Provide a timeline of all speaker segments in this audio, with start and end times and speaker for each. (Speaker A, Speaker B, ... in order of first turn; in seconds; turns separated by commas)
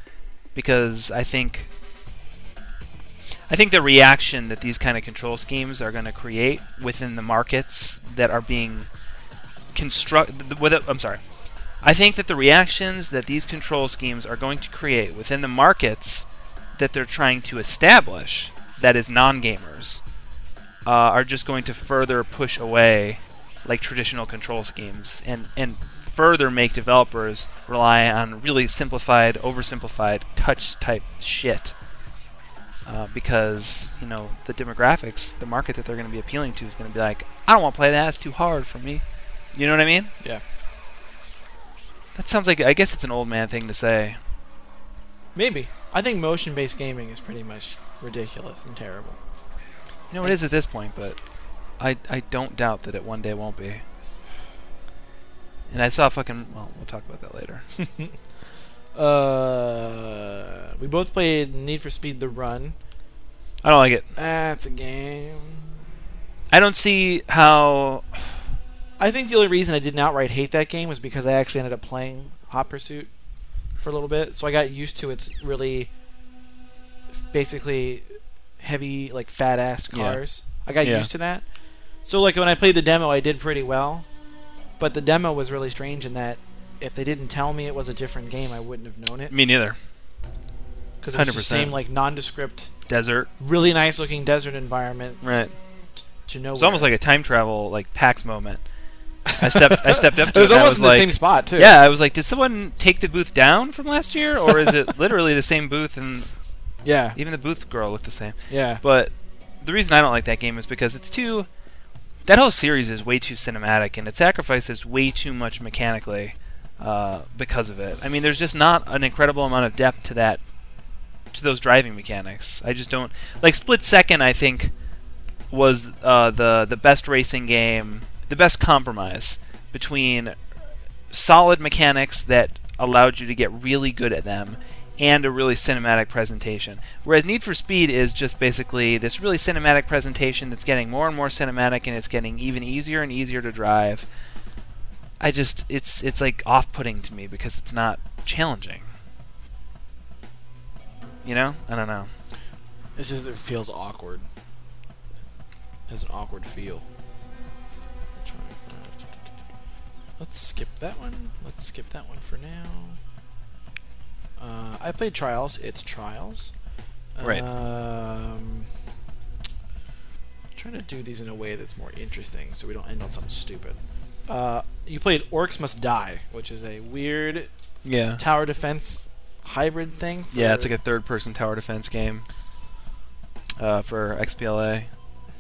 Speaker A: 0.6-1.7, Speaker A: 3.5-8.9, Speaker A: 9.7-11.2, Speaker A: 11.8-20.0, Speaker A: 20.9-31.8, Speaker A: 32.9-40.1, Speaker A: 42.1-44.2, Speaker B: 45.4-49.2, Speaker A: 50.1-51.2, Speaker A: 51.8-53.8, Speaker A: 55.7-57.6, Speaker B: 57.8-58.1, Speaker B: 58.9-62.8, Speaker A: 63.6-64.1, Speaker B: 64.2-65.7, Speaker A: 66.5-68.3, Speaker B: 69.0-73.1, Speaker B: 73.8-75.9, Speaker B: 77.1-81.4, Speaker A: 79.9-80.2, Speaker A: 80.8-81.1, Speaker B: 82.0-84.1, Speaker B: 84.8-89.3, Speaker A: 89.3-89.8, Speaker B: 91.0-92.7, Speaker A: 91.1-91.8, Speaker A: 92.9-93.3, Speaker B: 93.4-95.2, Speaker A: 95.2-95.5, Speaker B: 96.2-96.9, Speaker A: 96.6-98.6, Speaker B: 99.3-101.8, Speaker A: 99.4-106.3, Speaker B: 106.8-107.2, Speaker A: 107.2-111.5, Speaker B: 108.5-108.8, Speaker A: 112.2-120.4, Speaker A: 121.3-124.7, Speaker A: 125.5-130.4, Speaker A: 131.1-144.1, Speaker A: 145.2-148.9, Speaker A: 151.2-152.1, Speaker B: 153.0-154.3, Speaker B: 155.9-156.8, Speaker B: 158.2-159.2, Speaker B: 160.2-163.0, Speaker B: 164.4-166.5, Speaker B: 167.2-168.7, Speaker B: 170.6-177.5, Speaker A: 177.8-178.2, Speaker B: 178.2-180.7, Speaker A: 180.3-182.3, Speaker A: 183.6-184.9